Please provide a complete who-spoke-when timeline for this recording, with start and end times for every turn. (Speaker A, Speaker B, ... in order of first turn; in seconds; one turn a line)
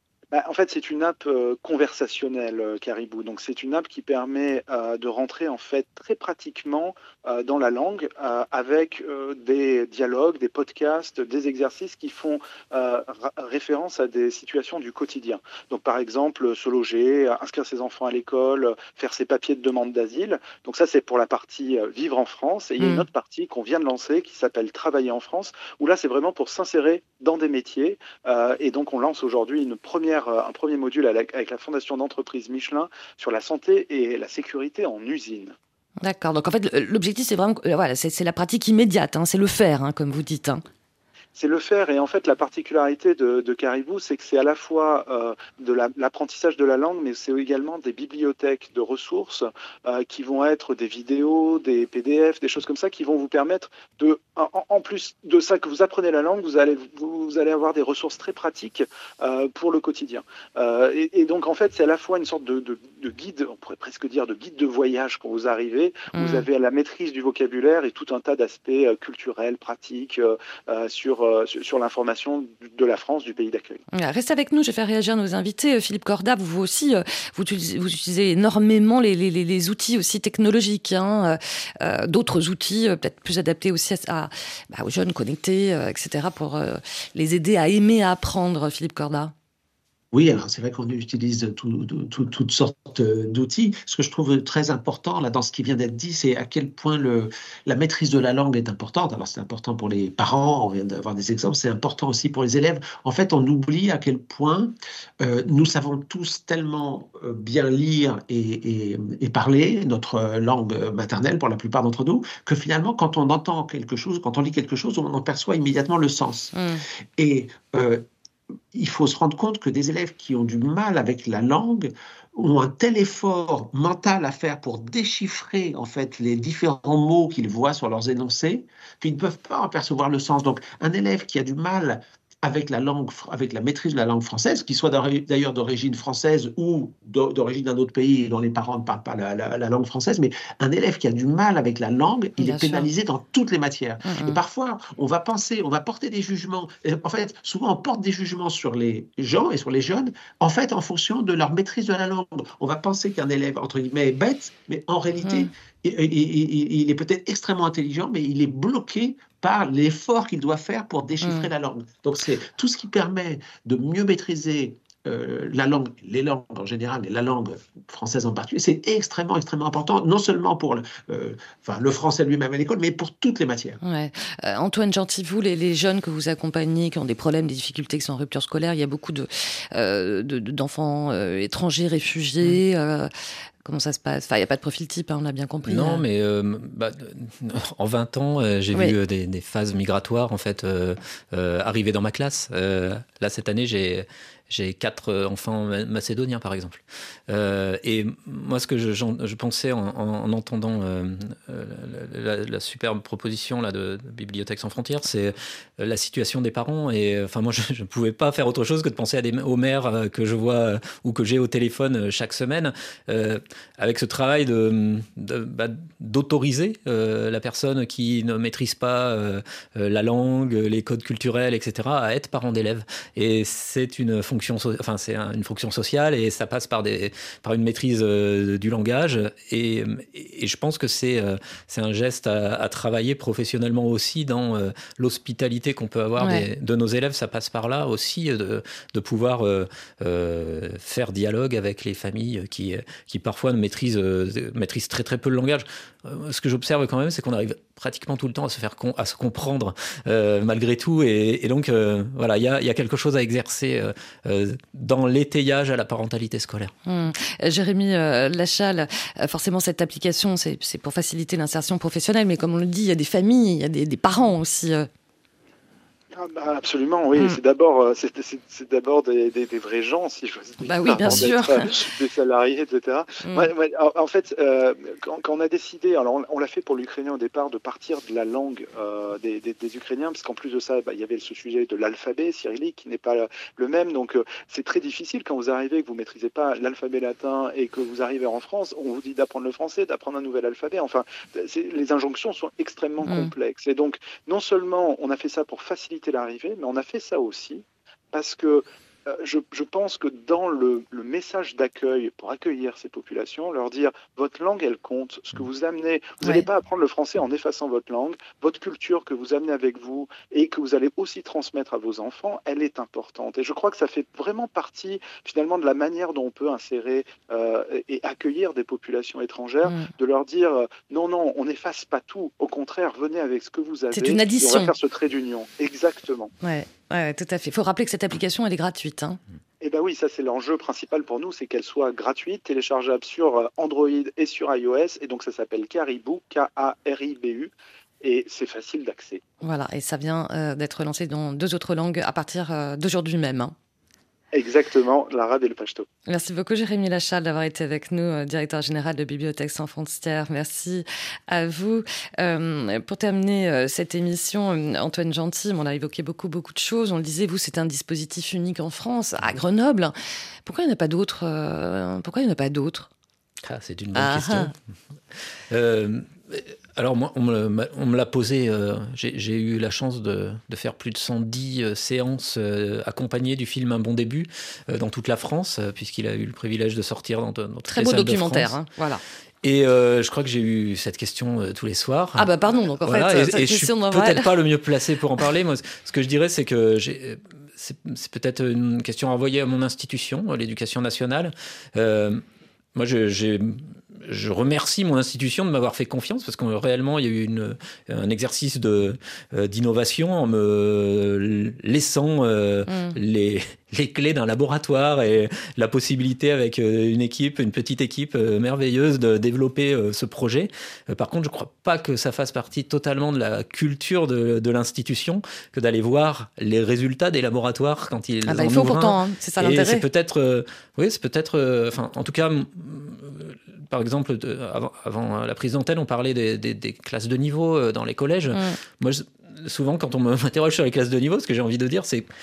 Speaker A: 0.3-35.5
Speaker B: 22.8-23.1
Speaker B: 36.0-40.6
Speaker A: 41.3-73.8
Speaker B: 66.1-66.5
Speaker B: 73.9-89.3
Speaker C: 90.1-116.5
Speaker B: 116.5-116.8
Speaker C: 117.2-118.0
Speaker C: 118.7-173.8
Speaker B: 142.4-142.9
Speaker B: 144.0-144.4
Speaker B: 155.2-155.5
Speaker B: 161.2-161.5
Speaker B: 173.8-183.1
Speaker B: 183.6-186.0
Speaker D: 185.7-256.7
Speaker B: 236.2-236.4
Speaker B: 256.9-264.9
Speaker A: 266.1-326.3
Speaker B: 270.6-271.7
Speaker B: 273.2-273.5
Speaker B: 293.0-293.3
Speaker B: 306.2-306.5
Speaker B: 319.6-319.9
Speaker B: 323.9-324.7
Speaker B: 326.4-329.2
Speaker A: 329.6-339.2
Speaker B: 339.4-343.5
Speaker A: 344.3-345.9
Speaker B: 346.1-359.9
Speaker B: 360.4-362.9
Speaker D: 363.4-364.5
Speaker B: 363.9-364.5
Speaker D: 365.5-378.6
Speaker B: 377.7-379.0
Speaker D: 379.4-382.3
Speaker B: 382.2-384.3
Speaker D: 382.8-392.2
Speaker D: 392.7-432.1
Speaker B: 402.7-403.0
Speaker B: 418.3-419.8